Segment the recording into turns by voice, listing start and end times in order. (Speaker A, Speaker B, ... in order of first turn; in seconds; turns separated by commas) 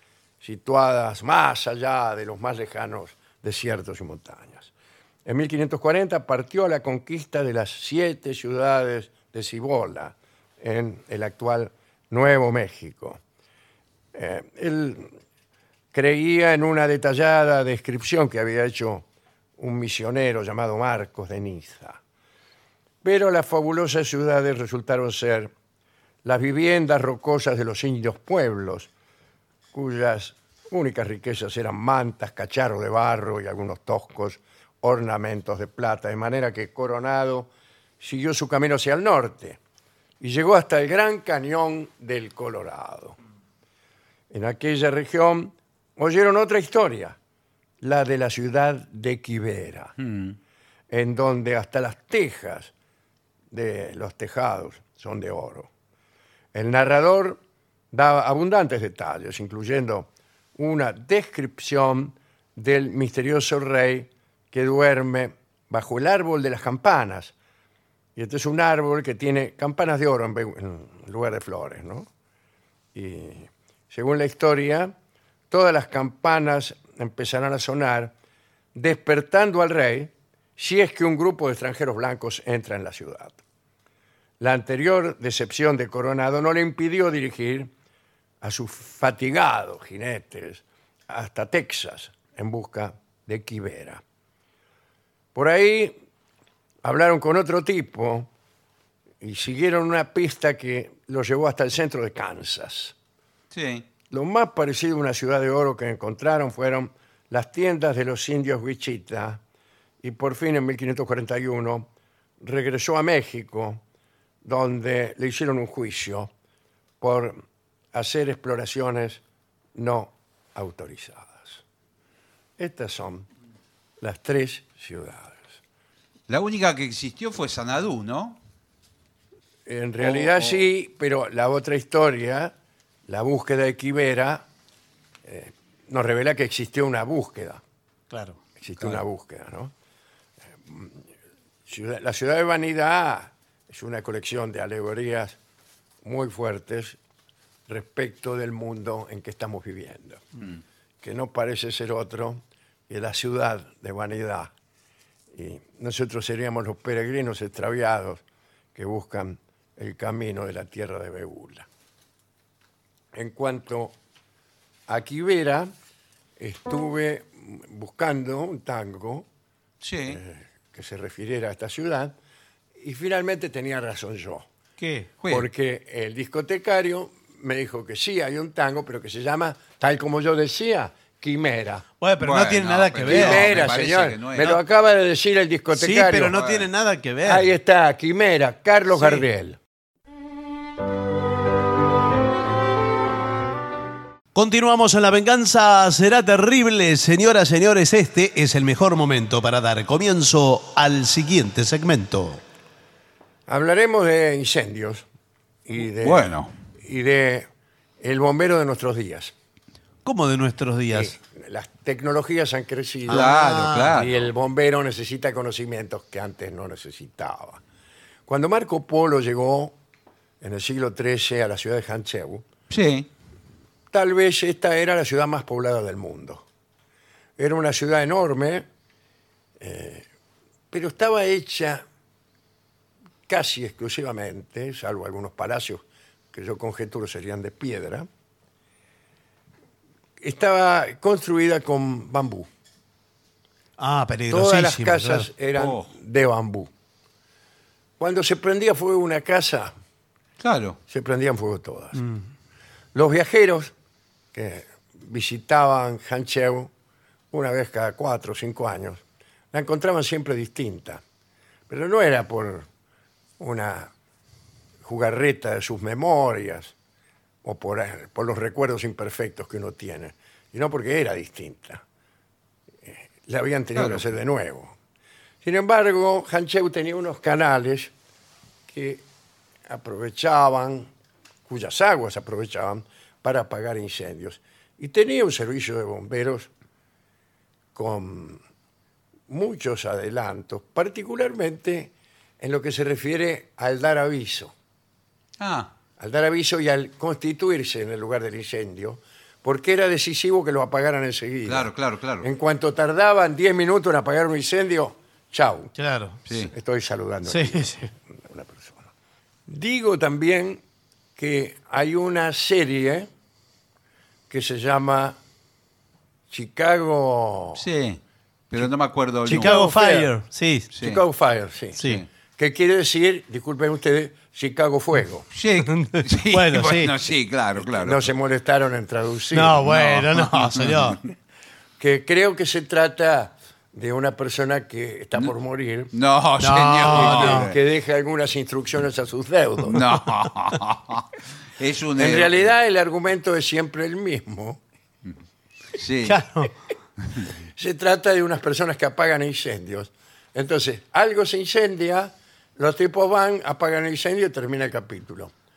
Speaker A: 0.4-4.7, Speaker A: 5.2-13.2, Speaker A: 14.1-15.1, Speaker A: 15.9-19.1, Speaker A: 19.6-22.0, Speaker A: 23.0-25.5, Speaker A: 26.2-28.9, Speaker A: 29.7-39.6, Speaker A: 40.2-43.2, Speaker A: 44.3-47.2, Speaker A: 47.8-49.9, Speaker B: 50.0-50.4, Speaker A: 50.9-52.7, Speaker A: 53.5-55.7, Speaker A: 56.5-57.4, Speaker A: 57.9-67.3, Speaker A: 68.2-72.1, Speaker A: 72.9-74.9, Speaker A: 75.5-78.1, Speaker A: 78.8-83.4, Speaker A: 84.4-87.7, Speaker A: 88.4-94.0, Speaker A: 95.3-96.0, Speaker A: 96.8-98.3, Speaker A: 99.2-103.0, Speaker B: 103.5-103.9, Speaker A: 104.1-109.4, Speaker A: 110.0-111.9, Speaker A: 112.4-113.8, Speaker A: 114.4-116.3, Speaker A: 117.0-117.4, Speaker A: 117.9-119.2, Speaker A: 119.8-121.6, Speaker A: 122.6-123.3, Speaker A: 124.0-125.6, Speaker B: 126.3-128.4, Speaker A: 129.7-132.5, Speaker B: 130.0-130.6, Speaker A: 133.1-134.5, Speaker A: 135.2-137.6, Speaker C: 138.1-139.0, Speaker A: 138.6-139.7, Speaker A: 140.7-141.0, Speaker A: 141.7-145.4, Speaker A: 146.0-147.0, Speaker A: 147.7-150.4, Speaker A: 151.0-154.5, Speaker A: 155.3-158.2, Speaker A: 158.8-161.7, Speaker A: 163.1-164.0, Speaker A: 164.9-165.7, Speaker A: 166.4-169.3, Speaker B: 169.8-170.2, Speaker A: 170.1-172.2, Speaker A: 172.8-174.5, Speaker C: 174.8-175.1, Speaker A: 175.3-181.8, Speaker C: 182.0-183.6, Speaker B: 182.2-184.6, Speaker A: 183.1-186.3, Speaker C: 185.7-187.5, Speaker B: 186.3-186.7, Speaker A: 187.2-189.6, Speaker C: 189.0-189.2, Speaker C: 194.3-202.4, Speaker A: 203.5-205.1, Speaker A: 205.7-206.3, Speaker B: 206.0-206.5, Speaker A: 206.8-207.5, Speaker A: 208.0-209.3, Speaker C: 210.1-211.2, Speaker A: 210.9-217.6, Speaker C: 213.1-213.9, Speaker B: 213.1-214.3, Speaker A: 218.3-219.8, Speaker A: 220.4-222.4, Speaker B: 222.7-223.1, Speaker A: 223.9-226.4, Speaker A: 227.4-228.7, Speaker A: 229.6-230.1, Speaker A: 230.7-231.8, Speaker A: 233.3-238.1, Speaker A: 240.2-242.5, Speaker C: 243.8-245.3, Speaker A: 244.3-246.7, Speaker B: 245.6-245.9, Speaker A: 248.0-249.7, Speaker B: 250.4-250.8, Speaker A: 250.9-252.0, Speaker A: 252.9-253.7, Speaker A: 254.3-256.7, Speaker A: 257.3-261.0, Speaker A: 261.7-262.7, Speaker A: 263.4-263.9, Speaker A: 264.8-266.7, Speaker A: 267.4-271.8, Speaker A: 272.8-274.7, Speaker A: 275.4-277.9, Speaker A: 278.7-279.1, Speaker A: 279.7-280.9, Speaker A: 281.5-286.5, Speaker A: 287.8-288.4, Speaker A: 289.3-294.5, Speaker B: 295.4-295.7, Speaker A: 296.0-301.7, Speaker B: 301.5-302.3, Speaker A: 302.2-305.7, Speaker C: 305.8-306.2, Speaker B: 306.3-306.5, Speaker A: 306.3-308.9, Speaker C: 307.3-307.9, Speaker A: 309.5-310.6, Speaker A: 311.2-313.1, Speaker A: 314.3-315.2, Speaker A: 316.3-317.6, Speaker B: 317.6-319.6, Speaker C: 319.2-320.7, Speaker A: 319.3-320.1, Speaker B: 320.7-321.0, Speaker A: 320.8-325.3, Speaker B: 321.8-322.1, Speaker B: 325.3-328.0, Speaker C: 325.8-326.9, Speaker A: 327.7-329.6, Speaker C: 329.3-331.0, Speaker B: 329.7-330.8, Speaker A: 331.8-335.9, Speaker B: 335.9-337.6, Speaker C: 336.4-337.5, Speaker A: 336.8-339.8, Speaker B: 339.7-341.1, Speaker B: 341.6-342.5, Speaker A: 342.0-344.6, Speaker B: 345.8-346.2, Speaker C: 346.0-346.5, Speaker A: 347.6-355.3